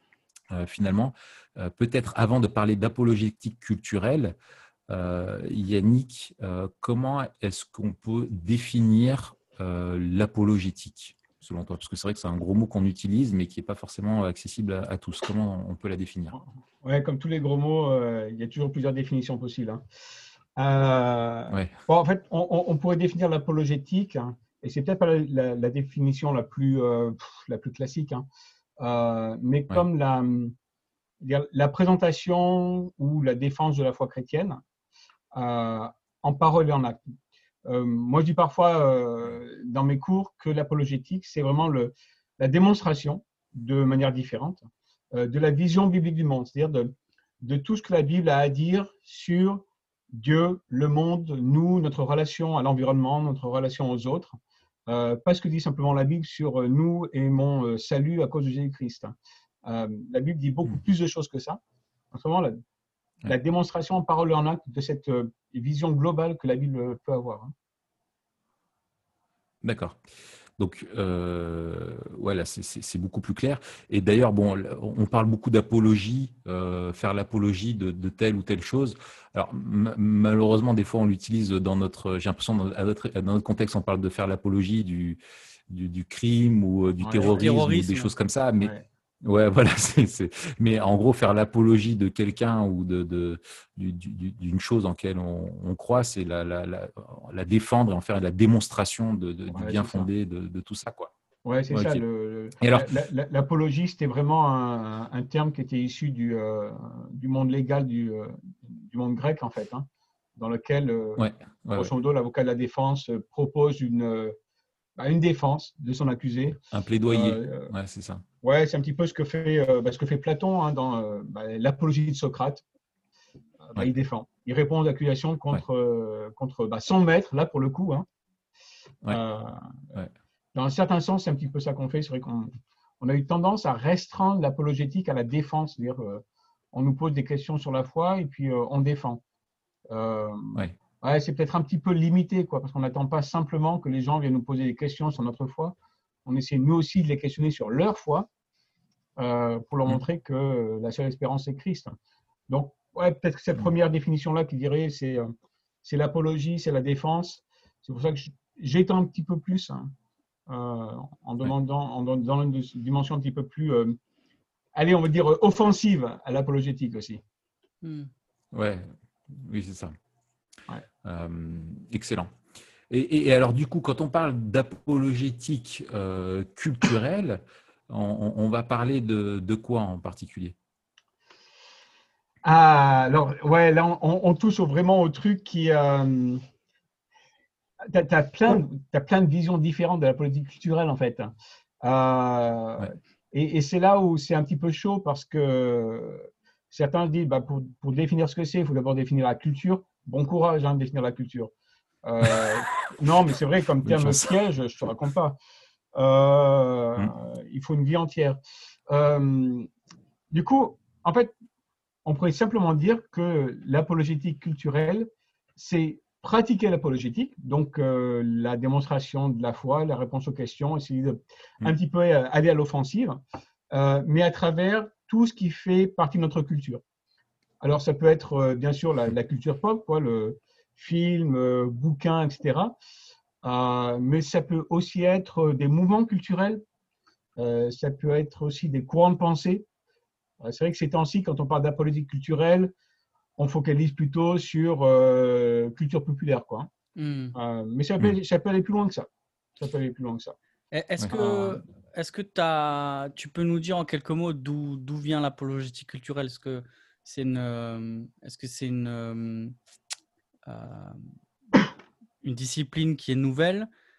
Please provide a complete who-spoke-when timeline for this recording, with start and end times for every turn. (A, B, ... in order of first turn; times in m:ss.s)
0:00.5-0:04.4 A
0:04.9-0:16.4 A
0:16.3-0:19.8 B
0:20.6-0:28.3 B
0:28.8-0:30.5 B
0:31.2-0:34.6 B
0:35.3-0:37.0 B
0:37.7-0:54.4 B
0:54.9-0:59.2 B
0:59.7-1:01.6 B
1:02.1-1:02.6 B
1:03.2-1:07.5 B
1:09.6-1:10.0 A
1:10.6-1:41.1 A
1:27.0-1:27.5 B
1:27.2-1:28.1 C
1:39.5-1:40.1 B
1:41.4-1:49.9 B
1:41.7-1:42.0 A
1:42.6-1:43.0 A
1:50.4-1:54.4 B
1:51.2-1:51.9 A
1:55.0-1:57.7 B
1:56.7-1:58.2 A
1:58.4-2:02.6 B
2:03.6-2:08.1 B
2:09.1-2:09.6 B
2:10.5-2:19.2 B
2:19.9-2:25.8 B
2:26.3-2:28.3 B
2:29.2-2:32.0 B
2:32.5-2:35.3 B
2:35.8-2:39.9 B
2:40.5-2:44.0 B
2:44.8-2:47.2 B
2:47.8-2:48.1 C
2:48.5-2:49.9 A
2:51.0-2:52.3 A
2:52.9-3:00.6 A
3:02.4-3:06.4 B
3:07.9-3:11.3 B
3:11.8-3:21.5 B
3:22.0-3:25.4 B
3:23.8-3:24.3 A
3:26.0-3:28.4 B
3:28.9-3:29.7 B
3:30.3-3:31.3 B
3:32.1-3:43.2 B
3:43.7-3:46.8 B
3:47.6-3:52.8 B
3:53.4-3:56.6 B
3:57.4-3:59.7 B
4:00.4-4:02.7 B
4:03.4-4:06.7 B
4:07.0-4:07.3 C
4:07.3-4:09.1 B
4:09.6-4:10.3 B
4:10.7-4:19.5 C
4:11.0-4:11.6 A
4:11.1-4:11.5 B
4:20.5-4:21.1 C
4:22.2-4:23.7 C